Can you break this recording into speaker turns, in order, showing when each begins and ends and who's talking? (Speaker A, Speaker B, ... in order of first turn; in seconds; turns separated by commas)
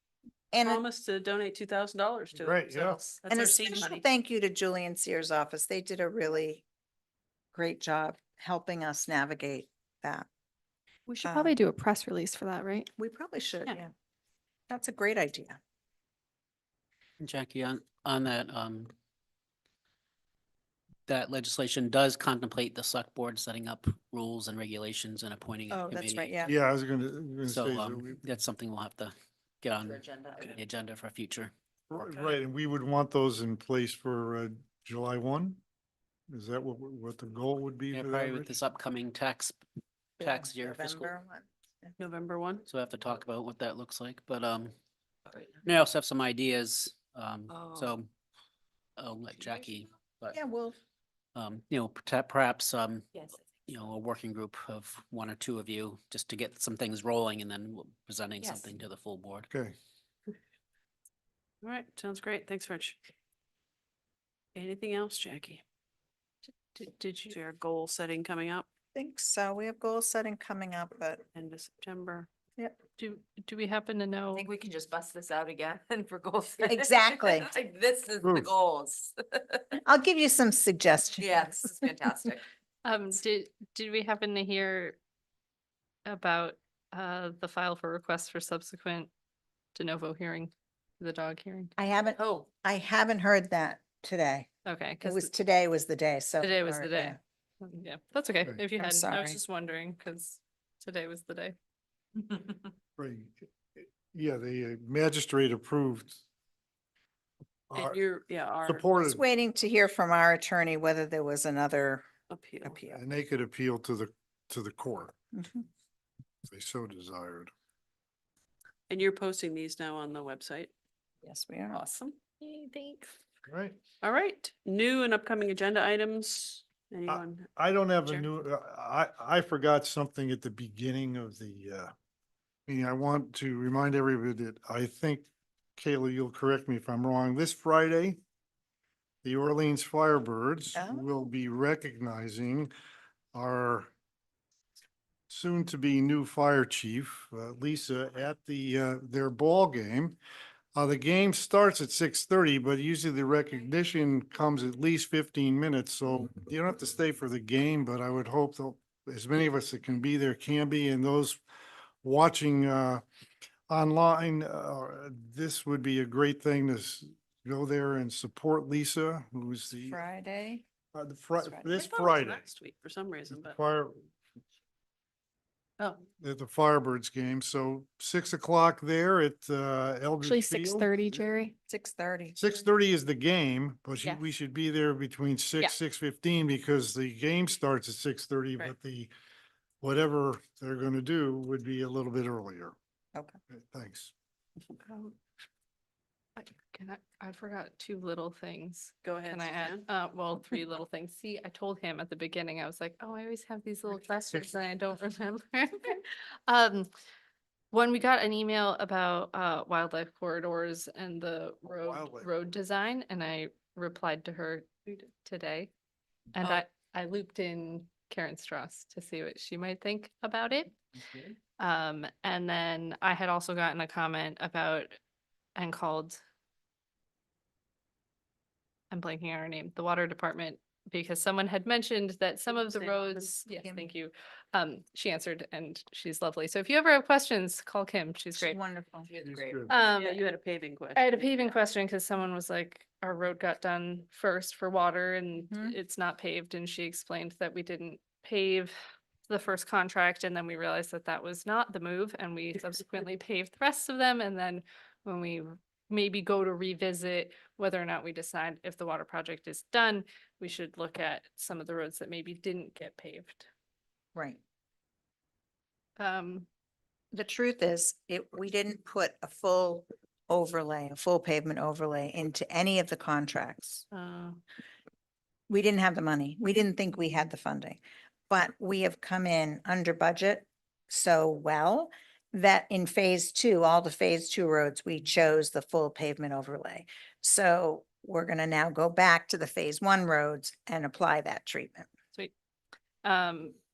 Speaker A: 0.5-0.8, Speaker B: 0.6-4.1, Speaker C: 2.4-3.0, Speaker A: 3.3-6.7, Speaker A: 7.5-10.3, Speaker D: 11.1-12.9, Speaker A: 11.2-11.6, Speaker A: 13.0-13.9, Speaker A: 14.7-15.6, Speaker E: 17.2-18.9, Speaker E: 21.1-26.4, Speaker A: 25.7-26.5, Speaker C: 26.4-28.2, Speaker E: 27.4-31.5, Speaker F: 29.8-30.5, Speaker C: 31.9-35.6, Speaker C: 36.3-38.6, Speaker E: 37.9-39.6, Speaker E: 40.2-41.1, Speaker A: 40.2-41.9, Speaker B: 42.0-42.7, Speaker E: 42.7-44.7, Speaker E: 45.6-48.1, Speaker F: 47.5-47.8, Speaker E: 49.0-50.4, Speaker A: 50.3-50.8, Speaker E: 51.4-59.5, Speaker C: 59.5-59.8, Speaker B: 61.6-63.0, Speaker B: 64.5-65.6, Speaker B: 66.8-68.7, Speaker A: 69.0-71.2, Speaker B: 71.3-72.3, Speaker G: 73.0-74.5, Speaker F: 74.3-79.8, Speaker A: 76.7-77.5, Speaker A: 79.8-82.3, Speaker F: 81.2-82.4, Speaker G: 82.8-85.0, Speaker G: 86.1-89.1, Speaker G: 89.8-91.7, Speaker A: 91.8-94.5, Speaker F: 92.2-92.5, Speaker G: 94.7-95.3, Speaker A: 95.0-97.2, Speaker G: 96.4-101.5, Speaker A: 98.8-99.4, Speaker C: 103.0-106.2, Speaker B: 107.7-109.0, Speaker C: 108.7-109.2, Speaker A: 109.0-112.1, Speaker B: 112.3-112.9, Speaker A: 112.6-113.0, Speaker C: 113.0-115.2, Speaker A: 115.3-115.7, Speaker C: 116.5-117.5, Speaker B: 118.9-120.7, Speaker A: 121.2-121.9, Speaker B: 121.8-122.2, Speaker C: 123.5-123.8, Speaker B: 124.0-127.5, Speaker C: 127.1-131.9, Speaker C: 132.7-138.2, Speaker C: 139.2-142.7, Speaker A: 140.8-141.1, Speaker C: 143.3-143.9, Speaker C: 145.3-150.2, Speaker C: 150.8-161.4, Speaker C: 162.0-163.0, Speaker C: 163.7-170.0, Speaker A: 169.8-170.6, Speaker C: 170.9-172.4, Speaker A: 171.4-171.8, Speaker B: 171.7-173.6, Speaker C: 173.3-174.1, Speaker B: 175.8-176.1, Speaker C: 176.2-180.9, Speaker D: 180.2-181.5, Speaker A: 181.7-182.4, Speaker C: 182.4-189.1, Speaker C: 189.8-192.8, Speaker C: 193.5-194.1, Speaker G: 194.8-195.1, Speaker G: 196.4-206.9, Speaker B: 199.0-199.9, Speaker G: 207.7-215.7, Speaker C: 211.7-212.3, Speaker G: 216.3-220.7, Speaker G: 221.6-225.0, Speaker G: 225.6-226.2, Speaker G: 228.9-238.6, Speaker B: 232.5-233.4, Speaker A: 233.6-233.9, Speaker A: 238.3-239.1, Speaker F: 239.1-239.6, Speaker C: 239.3-239.7, Speaker G: 239.7-240.2, Speaker B: 239.9-241.6, Speaker G: 240.9-248.7, Speaker A: 245.5-245.8, Speaker G: 249.3-263.5, Speaker A: 264.1-264.4, Speaker G: 266.0-266.5, Speaker A: 267.1-273.9, Speaker G: 273.9-274.4, Speaker A: 275.5-291.9, Speaker G: 293.0-293.6